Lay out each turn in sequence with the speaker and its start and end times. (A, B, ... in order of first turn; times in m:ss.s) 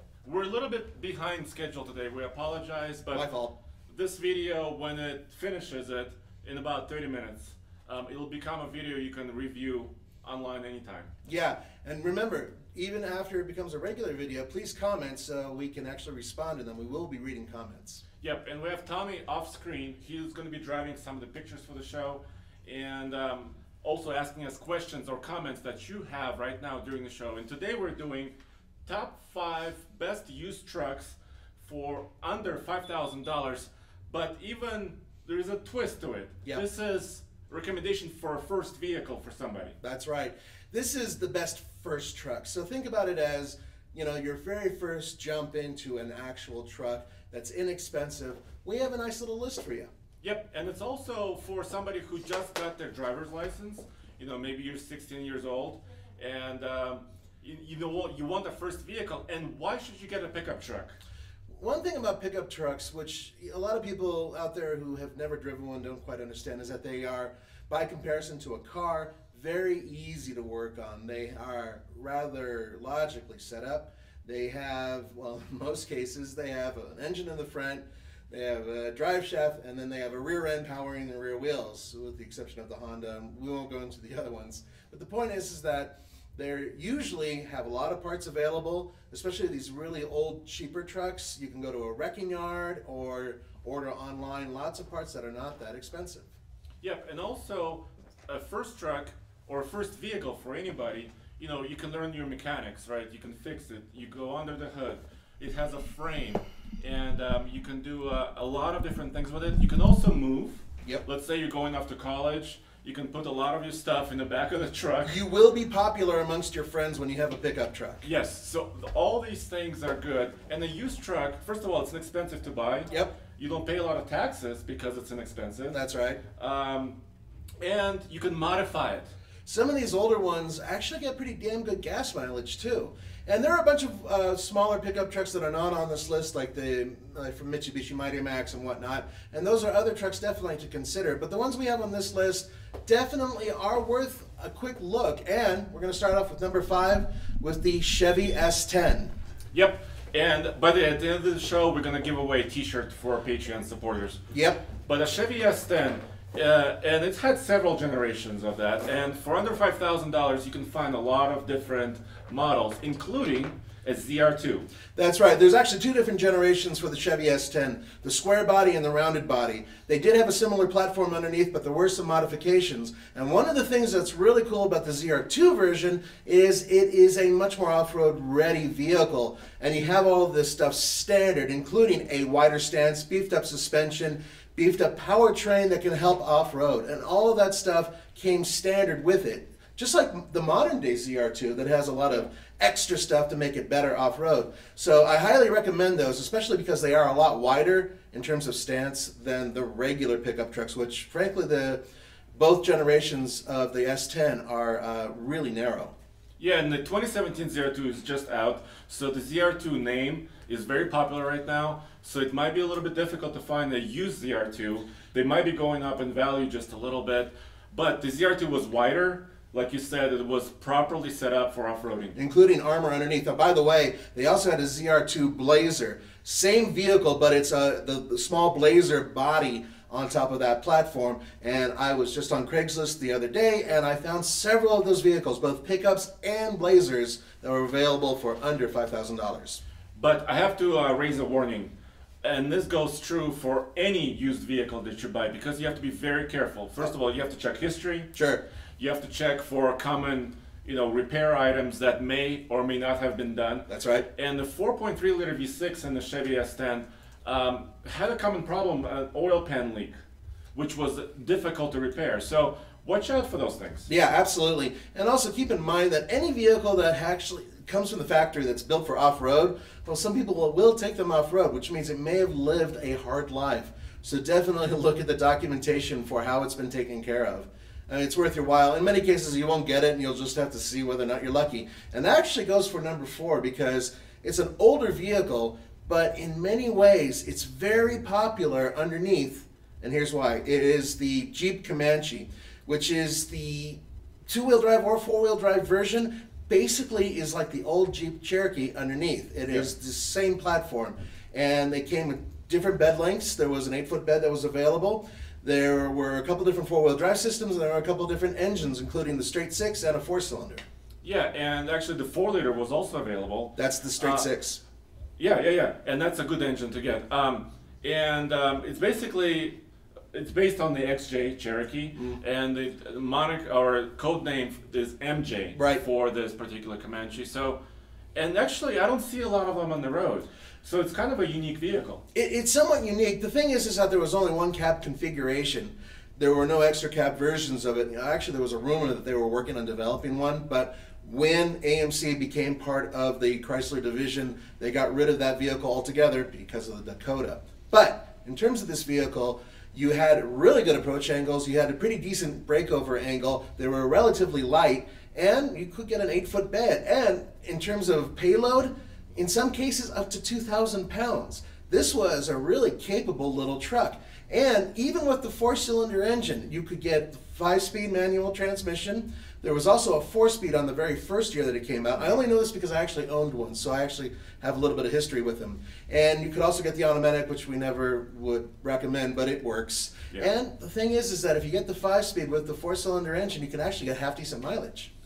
0:00.2-0:03.3 A
0:03.1-0:03.5 B
0:03.9-0:11.1 A
0:11.3-0:18.0 B
0:18.2-0:28.3 A
0:28.9-0:39.8 A
0:39.8-0:49.9 B
0:50.2-1:01.0 A
1:01.6-1:36.3 B
1:36.8-1:55.2 A
1:55.0-1:58.0 B
1:58.0-2:05.8 A
2:05.7-2:06.2 B
2:06.4-2:07.0 A
2:07.6-2:09.1 A
2:09.5-2:29.1 B
2:29.5-2:34.2 A
2:34.3-2:34.6 B
2:34.9-2:44.7 A
2:45.0-3:21.8 B
3:22.3-3:25.9 B
3:26.4-3:42.2 A
3:42.2-3:59.6 B
4:00.0-4:01.7 A
4:02.2-4:08.1 A
4:08.1-4:08.4 B
4:08.8-4:20.0 A
4:13.7-4:14.1 B
4:20.6-4:23.9 A
4:23.9-5:10.6 B
5:11.0-5:14.2 A
5:13.6-5:14.6 B
5:15.2-5:19.6 A
5:20.1-5:27.6 A
5:25.6-5:25.8 B
5:28.2-5:32.0 A
5:32.1-6:24.9 B